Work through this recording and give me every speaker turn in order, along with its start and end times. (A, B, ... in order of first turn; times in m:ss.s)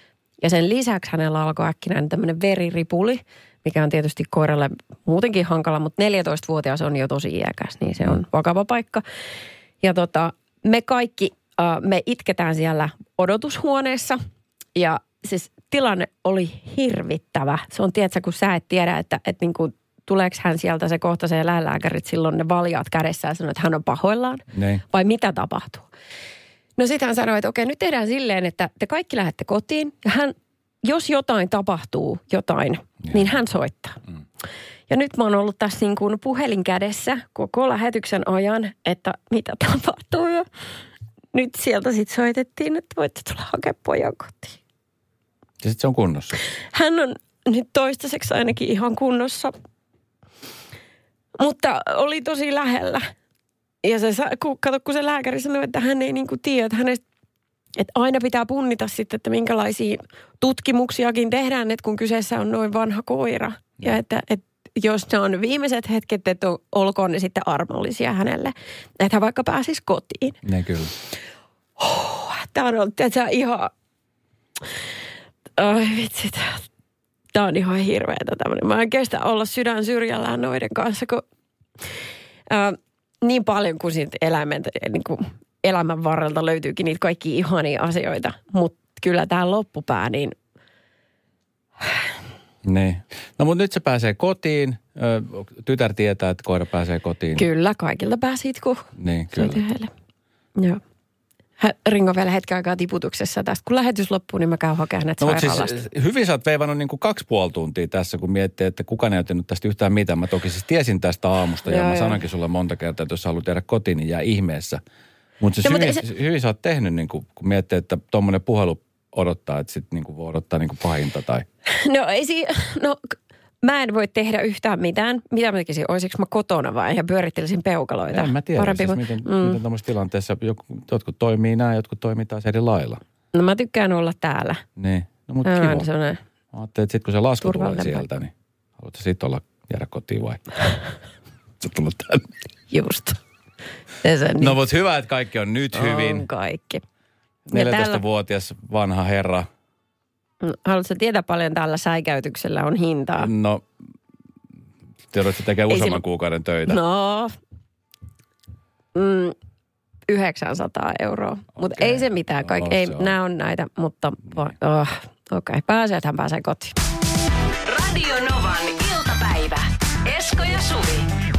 0:00.4-0:09.0 A
0:09.8-0:14.2 A
0:14.7-0:25.9 A
0:24.5-0:24.8 B
0:26.8-0:34.0 A
0:33.0-0:33.3 B
0:34.9-0:40.5 A
0:41.3-0:44.6 A
0:45.6-0:46.4 B
0:46.7-0:49.5 A
0:51.4-0:53.1 A
0:53.8-0:57.0 A
0:57.8-1:10.4 A
1:10.4-1:10.9 B
1:11.8-1:13.7 A
1:15.6-1:16.6 A
1:17.3-1:21.2 A
1:22.5-1:30.3 A
1:32.6-1:37.4 B
1:37.4-1:39.9 A
1:39.0-1:39.6 B
1:41.6-1:45.8 A
1:45.2-1:54.8 B
1:51.6-1:52.2 A
1:55.4-2:01.4 B
1:55.6-1:56.0 A
2:01.7-2:09.6 A
2:08.1-2:13.0 B
2:13.3-2:14.6 A
2:14.8-2:15.9 B
2:15.4-2:16.2 A
2:16.5-2:20.4 B
2:17.4-2:18.0 A
2:21.6-2:22.3 B
2:22.7-2:23.2 A
2:24.0-2:24.6 A
2:24.4-2:26.2 B
2:25.7-2:26.8 A
2:27.5-2:29.5 B
2:27.5-2:28.0 A
2:30.4-2:33.3 A
2:33.2-2:33.6 B
2:35.1-2:36.8 B
2:35.7-2:36.0 A
2:36.7-2:37.3 A
2:38.9-2:39.3 A
2:40.1-2:46.7 A
2:41.6-2:43.1 B
2:47.6-2:51.1 C